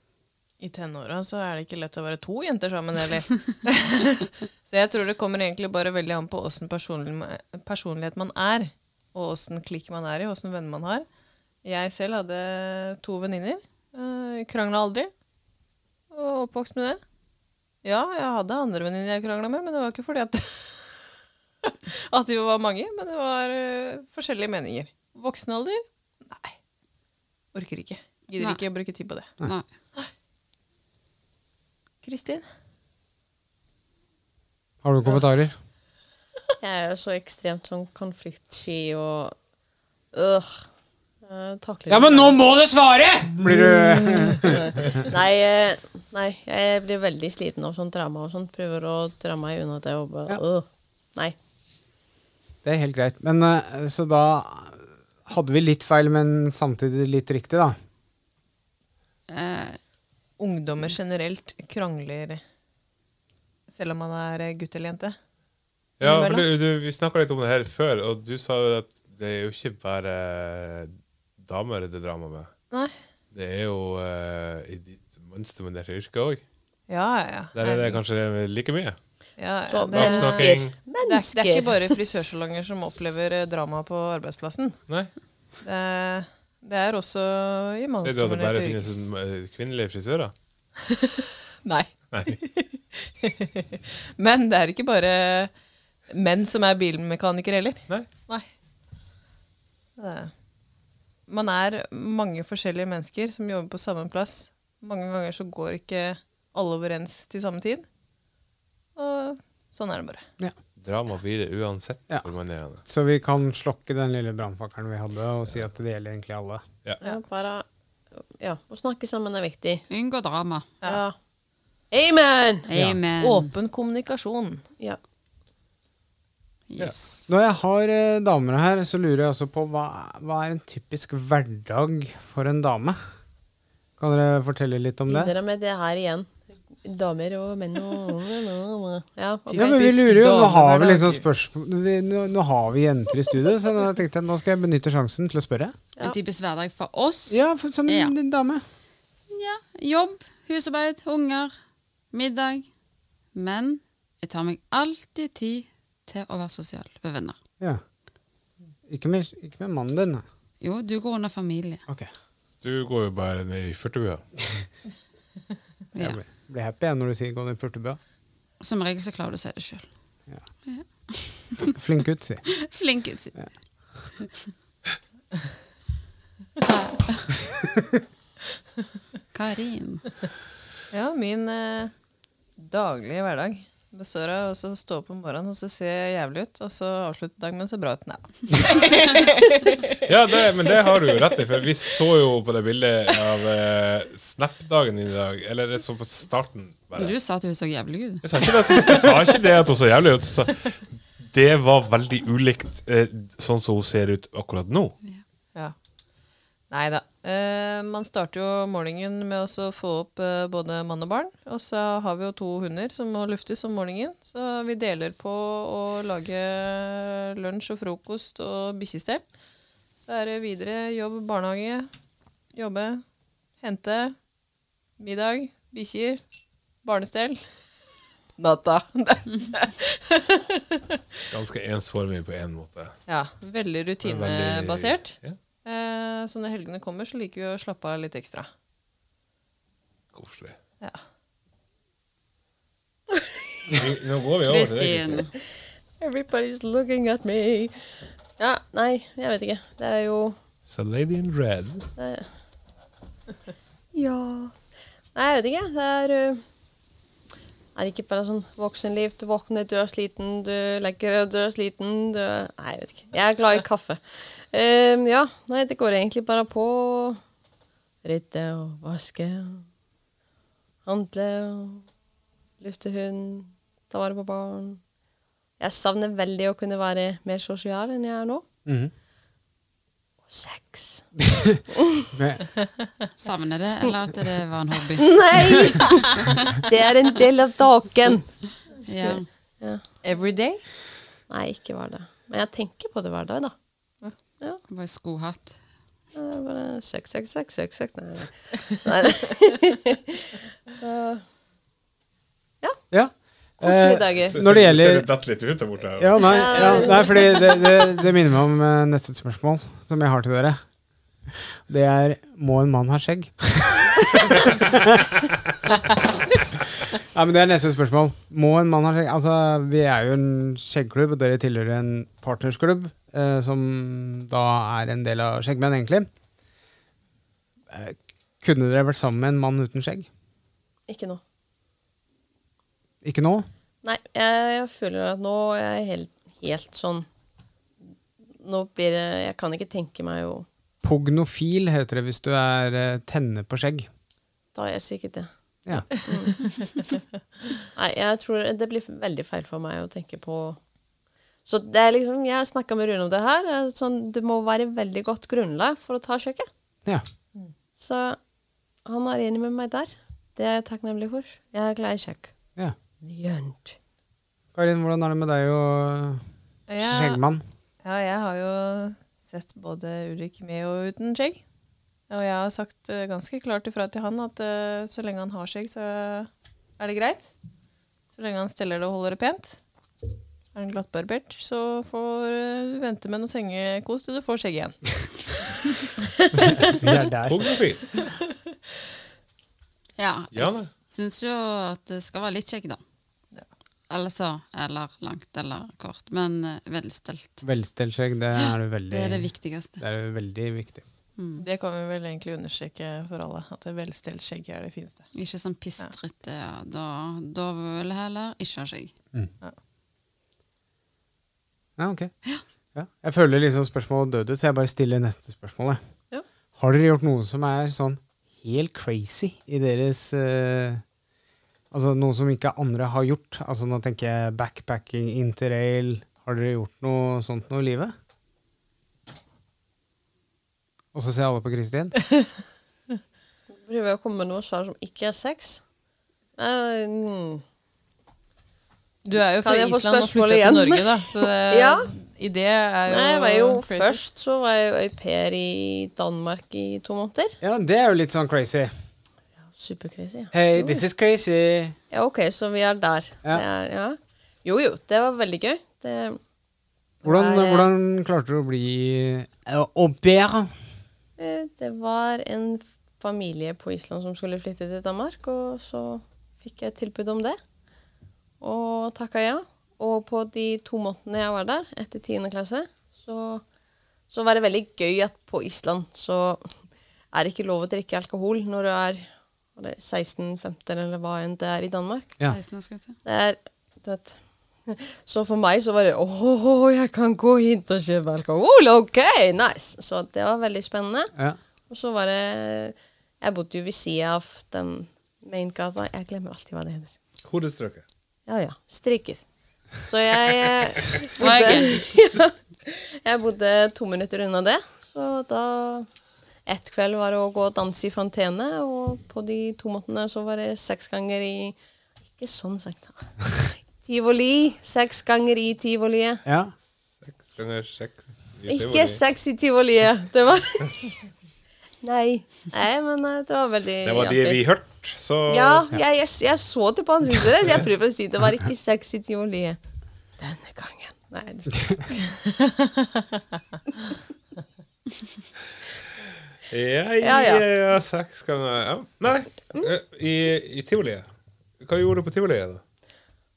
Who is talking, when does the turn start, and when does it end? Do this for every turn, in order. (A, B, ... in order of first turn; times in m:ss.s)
0:00.6-0:11.1 A
0:11.6-0:15.1 A
0:16.1-0:17.0 A
0:17.8-0:21.0 A
0:21.6-0:26.6 A
0:27.5-0:29.3 A
0:29.4-0:29.7 B
0:32.0-0:32.4 A
0:34.8-0:35.6 C
0:36.6-0:39.4 D
0:40.1-0:40.6 D
0:41.2-0:42.4 D
0:41.9-0:44.8 C
0:44.4-0:51.4 D
0:52.6-0:57.8 C
0:59.3-0:59.8 B
1:00.4-1:02.4 A
1:03.7-1:05.2 A
1:06.0-1:12.5 E
1:06.0-1:06.4 A
1:12.7-1:13.0 A
1:13.3-1:16.4 E
1:16.9-1:18.0 A
1:17.6-1:19.0 E
1:19.4-1:24.8 A
1:19.7-1:21.9 D
1:19.9-1:20.8 E
1:25.6-1:28.9 A
1:28.0-1:30.3 E
1:30.8-1:35.5 A
1:32.1-1:32.4 E
1:36.1-1:38.5 A
1:40.0-1:40.3 A
1:41.3-1:47.9 A
1:49.0-1:50.2 A
1:50.8-1:52.8 E
1:52.8-1:56.6 C
1:57.0-1:57.6 D
1:58.4-1:59.8 D
1:59.9-2:00.7 B
2:00.8-2:01.2 D
2:01.9-2:02.7 D
2:02.7-2:03.5 B
2:02.7-2:03.0 C
2:03.2-2:04.6 A
2:06.7-2:07.3 B
2:07.3-2:13.0 C
2:14.0-2:15.3 C
2:15.1-2:19.7 D
2:19.5-2:21.2 A
2:19.6-2:25.8 C
2:26.0-2:28.1 B
2:27.3-2:28.6 C
2:29.3-2:31.5 B
2:32.1-2:32.7 B
2:33.3-2:37.4 B
2:38.9-2:40.2 C
2:40.6-2:41.8 B
2:42.6-2:44.2 E
2:46.0-2:46.2 B
2:46.0-2:48.0 C
2:48.6-2:49.8 B
2:50.7-2:51.7 B
2:51.6-2:52.5 C
2:52.6-2:53.4 B
2:56.7-2:57.3 B
2:59.3-3:00.1 B
3:00.9-3:01.9 A
3:02.6-3:10.0 A
3:10.1-3:17.1 E
3:17.0-3:18.5 B
3:18.2-3:20.7 E
3:18.9-3:19.2 A
3:21.2-3:25.0 E
3:26.7-3:39.2 A
3:40.0-3:41.9 A
3:42.5-3:43.0 A
3:43.6-3:44.2 A
3:45.0-3:46.2 A
3:46.8-3:47.5 A
3:48.4-3:51.0 A
3:51.3-3:53.0 E
3:53.1-3:58.5 A
3:54.0-3:55.4 E
4:00.1-4:00.6 E
4:03.7-4:05.3 E
4:04.4-4:05.3 B
4:06.0-4:07.8 D
4:08.4-4:10.4 D
4:10.7-4:11.9 E
4:12.0-4:12.3 D
4:13.9-4:14.6 D
4:15.1-4:16.4 D
4:17.8-4:27.2 D
4:28.0-4:29.7 D
4:30.8-4:31.9 D
4:32.6-4:34.8 D
4:35.6-4:38.4 D
4:38.7-4:38.9 C
4:40.3-4:41.1 D
4:41.2-4:42.4 C
4:41.7-4:42.1 D
4:43.2-4:45.6 B
4:45.0-4:48.3 D
4:48.8-4:49.8 D
4:48.9-4:49.2 B
4:50.0-4:50.6 A
4:51.3-4:53.5 D
4:54.7-4:55.6 B
4:56.1-5:01.2 D
5:02.9-5:05.1 C
5:03.6-5:04.4 D
5:04.3-5:06.8 E
5:06.0-5:10.6 C
5:06.2-5:07.8 D
5:11.3-5:15.3 C
5:16.9-5:26.1 C
5:27.7-5:30.1 C
5:30.9-5:31.2 D
5:33.0-5:33.5 C
5:33.8-5:37.1 D
5:38.4-5:40.4 D
5:40.8-5:43.9 C
5:44.6-5:45.3 D
5:46.0-5:46.8 D
5:47.7-5:50.6 D
5:51.4-5:56.5 D
5:57.8-5:58.2 D
5:58.8-6:02.3 D
6:03.0-6:03.8 D
6:04.5-6:06.2 C
6:06.7-6:07.2 A
6:06.8-6:07.4 C
6:07.8-6:11.4 A
6:12.1-6:17.3 A
6:18.1-6:19.6 A
6:20.5-6:24.8 A
6:26.4-6:27.6 C
6:27.3-6:28.0 E
6:30.0-6:32.8 B
6:30.3-6:30.7 E
6:33.9-6:37.4 B
6:37.4-6:40.8 C
6:38.4-6:39.8 B
6:41.2-6:41.4 B
6:41.4-6:45.1 A
6:45.1-6:48.9 B
6:51.8-6:52.1 C
6:52.8-6:55.8 C
6:56.6-7:00.8 C
7:01.7-7:07.9 C
7:10.9-7:12.0 C
7:13.5-7:15.6 D
7:16.4-7:17.4 D
7:19.0-7:24.0 A
7:19.4-7:21.9 D
7:22.9-7:27.4 D
7:27.4-7:28.7 C
7:29.6-7:30.8 D
7:30.3-7:31.8 C
7:31.9-7:36.2 D
7:37.0-7:37.7 D
7:37.0-7:40.5 C
7:41.2-7:47.4 D
7:48.4-7:53.4 D
7:54.1-7:56.5 D
7:57.1-8:02.2 D
8:02.2-8:03.0 B
8:03.0-8:11.1 D
8:11.7-8:16.9 D
8:17.2-8:17.8 E
8:18.3-8:19.2 D
8:19.8-8:25.9 D
8:21.2-8:21.9 B
8:26.4-8:31.6 D
8:32.2-8:36.2 D
8:36.2-8:36.5 C
8:37.0-8:39.0 E
8:38.5-8:40.8 D
8:41.8-8:44.4 D
8:43.8-8:45.7 E
8:45.3-8:49.6 D
8:50.2-8:52.2 D
8:56.5-9:01.1 E
8:57.0-8:57.4 D
9:01.6-9:02.6 E